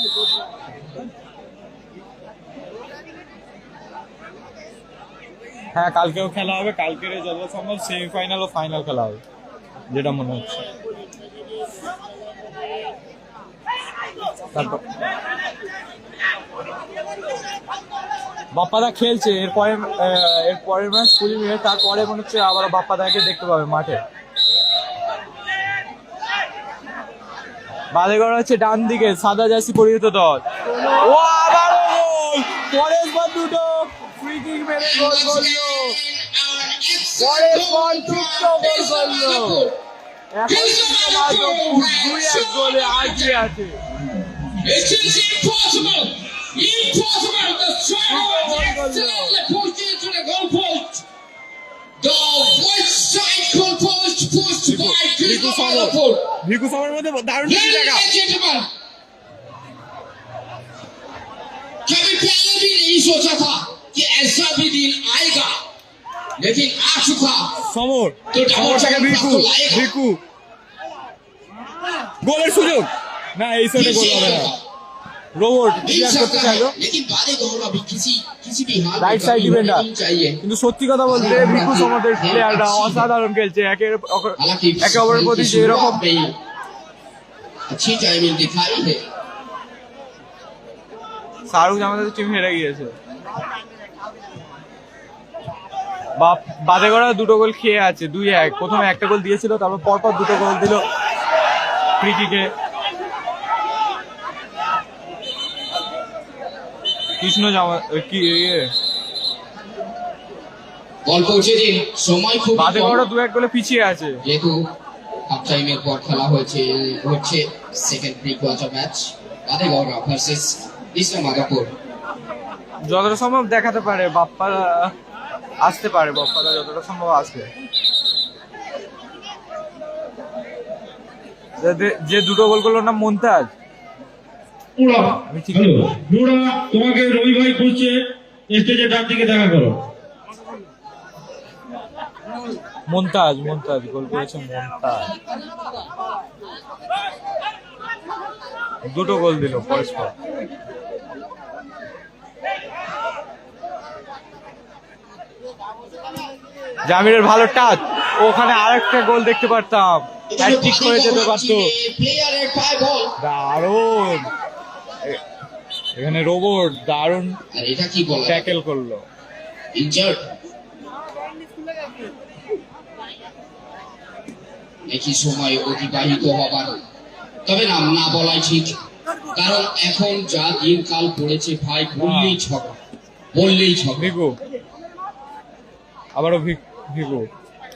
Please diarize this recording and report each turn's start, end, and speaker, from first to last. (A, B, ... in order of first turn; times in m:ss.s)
0:05.7-0:09.2 A
0:09.9-0:10.6 A
0:14.5-0:14.8 A
0:18.5-0:24.0 A
0:27.9-0:36.0 A
0:34.8-0:39.8 B
0:37.2-0:39.6 A
0:40.3-0:43.8 A
0:40.5-0:43.5 B
0:44.4-0:51.0 B
0:48.0-0:49.4 A
0:52.0-0:56.2 B
0:54.7-0:58.1 A
0:57.4-0:58.7 B
1:01.9-1:05.6 B
1:06.4-1:07.6 B
1:07.6-1:10.2 A
1:08.3-1:09.9 B
1:12.2-1:14.5 A
1:13.8-1:14.6 B
1:15.4-1:16.8 A
1:15.8-1:20.4 B
1:19.0-1:19.9 A
1:20.4-1:26.0 A
1:21.1-1:23.1 B
1:24.4-1:26.4 B
1:27.7-1:29.0 B
1:31.5-1:32.9 A
1:36.2-1:40.8 A
1:42.0-1:42.5 A
1:47.2-1:48.7 A
1:51.0-1:53.0 B
1:52.6-1:54.2 A
1:54.2-1:54.7 B
1:55.3-2:01.7 B
2:02.9-2:04.9 A
2:05.6-2:07.5 A
2:11.6-2:13.5 A
2:14.8-2:15.2 C
2:15.0-2:16.0 A
2:15.7-2:19.9 C
2:22.9-2:25.1 A
2:28.9-2:30.1 A
2:36.9-2:41.7 A
2:40.3-2:43.2 B
2:43.2-2:44.3 A
2:46.0-2:47.4 A
2:47.5-2:48.6 B
2:48.2-2:49.0 A
2:49.7-2:50.2 B
2:54.9-2:56.8 B
2:57.5-2:58.8 B
2:59.3-3:02.8 B
3:02.0-3:02.4 A
3:03.3-3:04.1 B
3:04.0-3:04.4 A
3:06.1-3:07.3 A